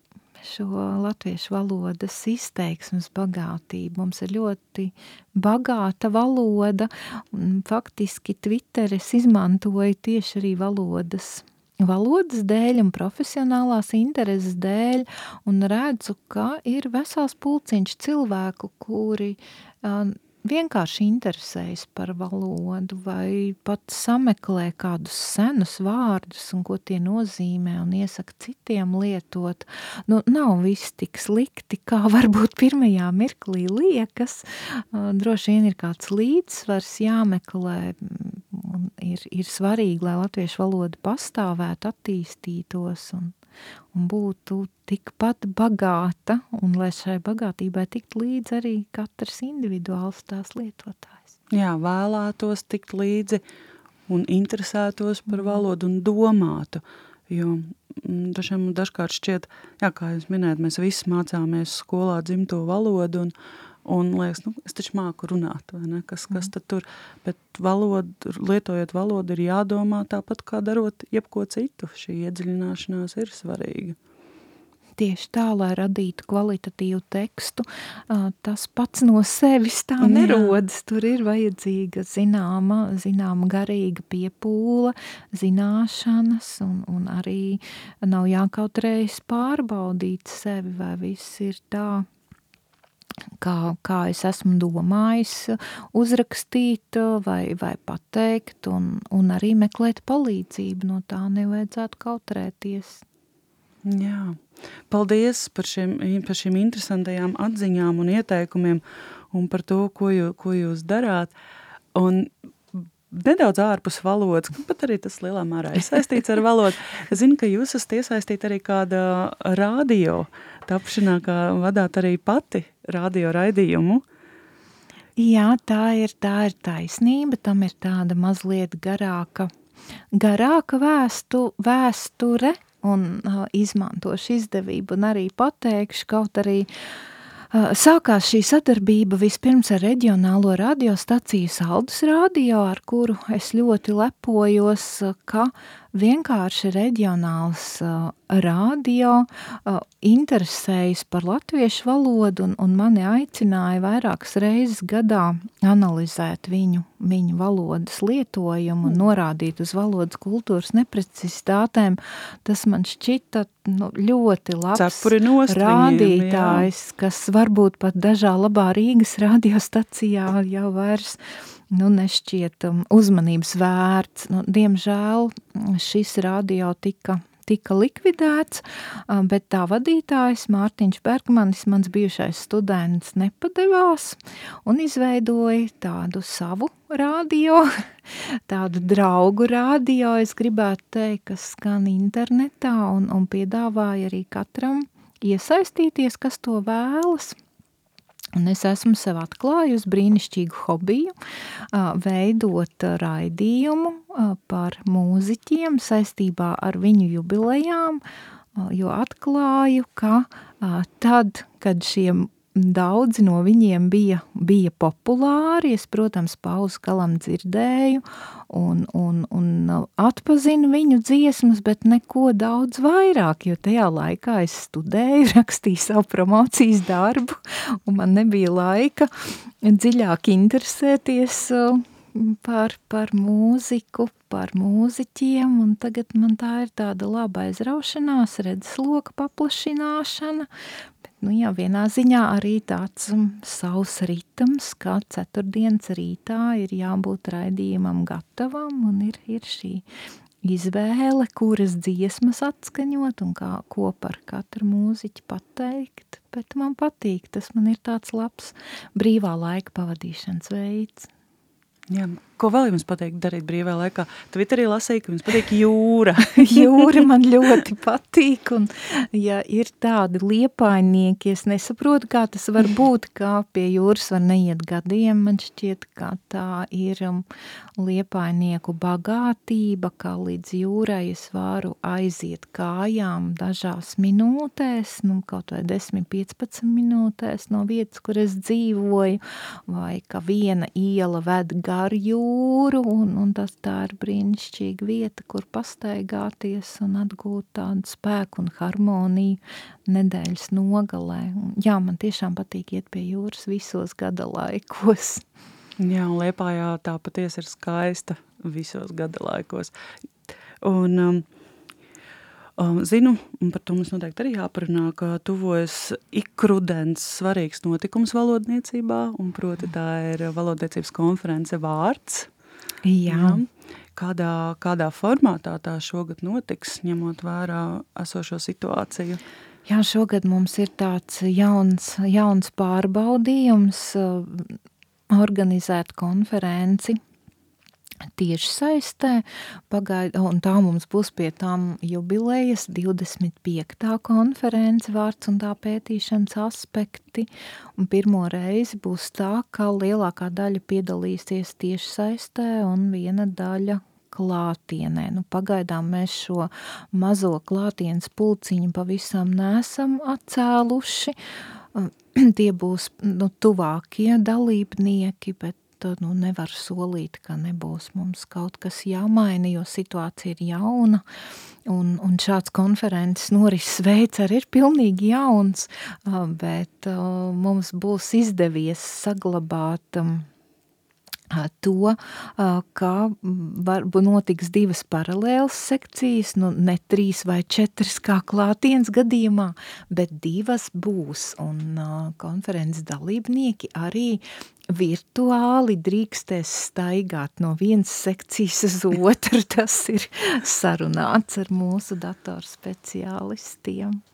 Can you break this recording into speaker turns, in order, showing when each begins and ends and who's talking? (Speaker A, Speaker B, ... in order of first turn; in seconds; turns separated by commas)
Speaker A: 0.4-43.4, Speaker A: 43.9-51.4, Speaker B: 51.5-53.4, Speaker B: 54.1-63.3, Speaker B: 63.9-74.0, Speaker A: 75.0-92.1, Speaker B: 80.0-80.5, Speaker A: 93.4-103.0, Speaker B: 103.8-111.3, Speaker B: 112.0-124.0, Speaker A: 125.2-129.5, Speaker A: 130.1-136.7, Speaker A: 137.5-171.2, Speaker B: 164.8-166.7, Speaker A: 171.7-197.4, Speaker A: 198.3-201.1, Speaker A: 201.7-208.0, Speaker A: 208.6-229.1, Speaker A: 229.6-240.5, Speaker A: 241.2-249.8, Speaker A: 250.4-261.1, Speaker B: 261.9-267.1, Speaker A: 266.3-277.2, Speaker A: 277.8-305.2, Speaker B: 305.8-309.7, Speaker B: 310.6-311.3, Speaker B: 312.6-322.3, Speaker A: 322.8-323.4, Speaker B: 323.1-329.2, Speaker A: 329.7-334.6, Speaker A: 335.1-337.0, Speaker A: 338.2-361.2, Speaker A: 361.8-371.0, Speaker A: 371.7-380.3, Speaker A: 381.3-404.0